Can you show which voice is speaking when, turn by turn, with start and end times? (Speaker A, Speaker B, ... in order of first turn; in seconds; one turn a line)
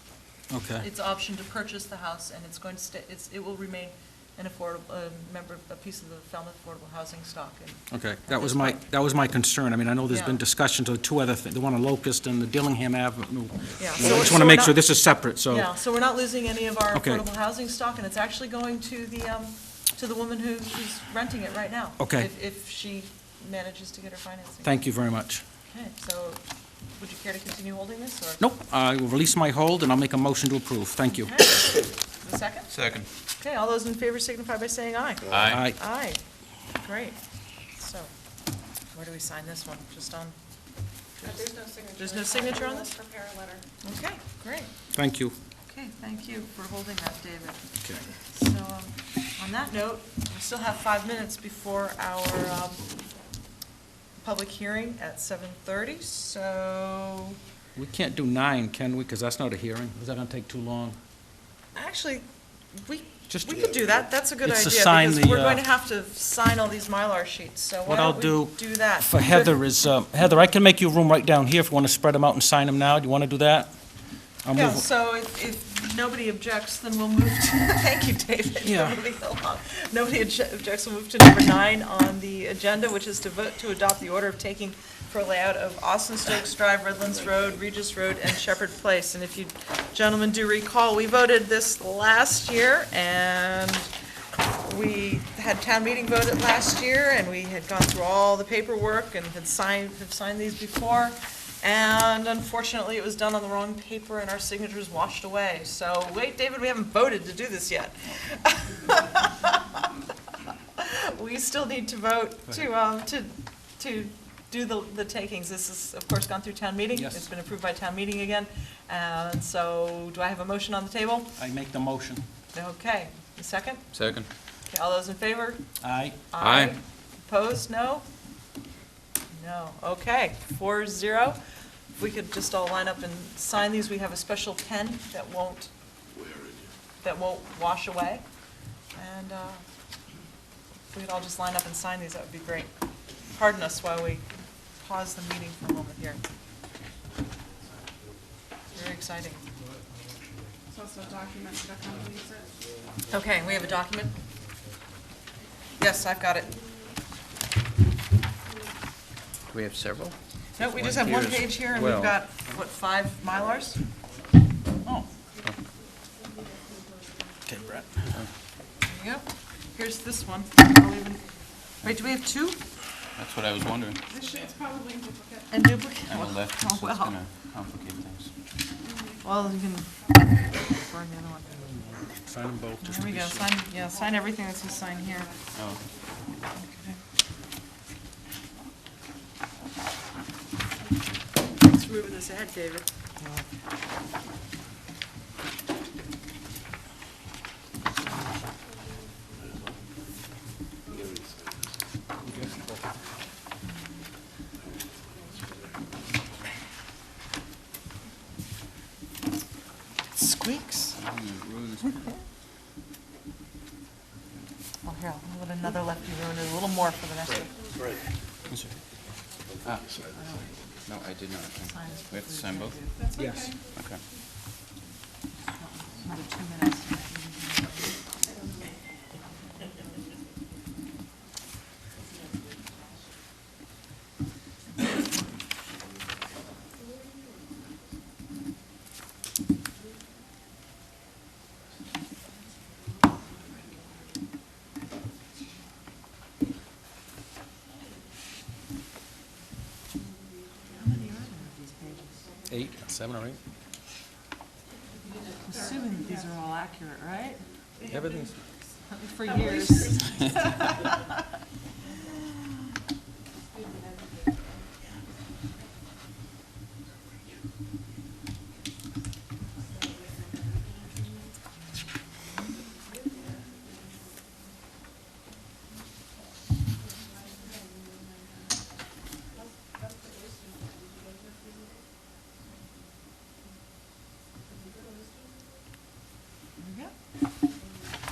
Speaker A: 0.5-0.8
Speaker B: 0.8-8.8
Speaker A: 7.9-15.7
Speaker B: 10.1-10.4
Speaker B: 13.8-14.8
Speaker B: 15.5-24.8
Speaker A: 16.9-17.2
Speaker A: 22.0-22.3
Speaker A: 24.6-25.4
Speaker B: 25.7-28.4
Speaker A: 28.4-31.5
Speaker B: 31.1-32.7
Speaker C: 32.7-33.1
Speaker B: 33.4-36.2
Speaker C: 35.3-35.6
Speaker A: 35.5-35.8
Speaker B: 36.8-37.2
Speaker B: 37.7-38.1
Speaker B: 38.9-40.3
Speaker B: 41.2-43.0
Speaker B: 43.8-44.7
Speaker A: 44.9-45.3
Speaker B: 45.7-52.8
Speaker B: 54.2-57.4
Speaker A: 57.7-61.0
Speaker B: 61.7-62.2
Speaker B: 62.8-69.5
Speaker A: 63.3-63.7
Speaker A: 64.4-65.6
Speaker A: 67.8-73.7
Speaker A: 74.4-74.8
Speaker B: 74.5-93.9
Speaker A: 78.6-79.0
Speaker B: 94.6-109.8
Speaker B: 110.8-121.3
Speaker A: 117.0-117.2
Speaker A: 121.4-122.2
Speaker B: 122.5-128.0
Speaker C: 123.9-124.3
Speaker A: 125.8-126.2
Speaker C: 126.4-126.7
Speaker B: 129.3-131.4
Speaker B: 132.0-135.7
Speaker B: 137.0-138.2
Speaker B: 138.9-139.6
Speaker B: 140.9-142.7
Speaker B: 143.3-144.3
Speaker B: 144.8-146.2
Speaker D: 146.8-156.8
Speaker B: 148.7-149.4
Speaker B: 153.1-154.1
Speaker B: 155.8-156.5
Speaker C: 159.5-162.2
Speaker B: 160.6-163.8
Speaker D: 162.4-164.5
Speaker D: 166.2-166.9
Speaker A: 167.4-168.1
Speaker B: 168.8-172.6
Speaker C: 173.2-174.0
Speaker B: 175.5-177.2
Speaker C: 176.0-178.3
Speaker B: 179.2-181.5
Speaker A: 181.5-183.5
Speaker B: 182.8-185.3
Speaker B: 186.6-187.0
Speaker B: 191.6-192.9
Speaker A: 202.2-202.9
Speaker D: 205.3-206.4
Speaker B: 210.1-211.0
Speaker C: 210.9-212.0
Speaker B: 211.8-212.1
Speaker B: 214.8-217.5
Speaker B: 220.2-220.4
Speaker C: 220.8-222.8
Speaker B: 221.6-223.1
Speaker A: 223.1-223.6
Speaker C: 223.7-224.0
Speaker B: 225.6-227.9
Speaker B: 250.7-252.3
Speaker A: 252.5-253.4
Speaker B: 255.5-257.4
Speaker A: 257.8-258.4
Speaker B: 258.9-260.7
Speaker B: 286.6-286.9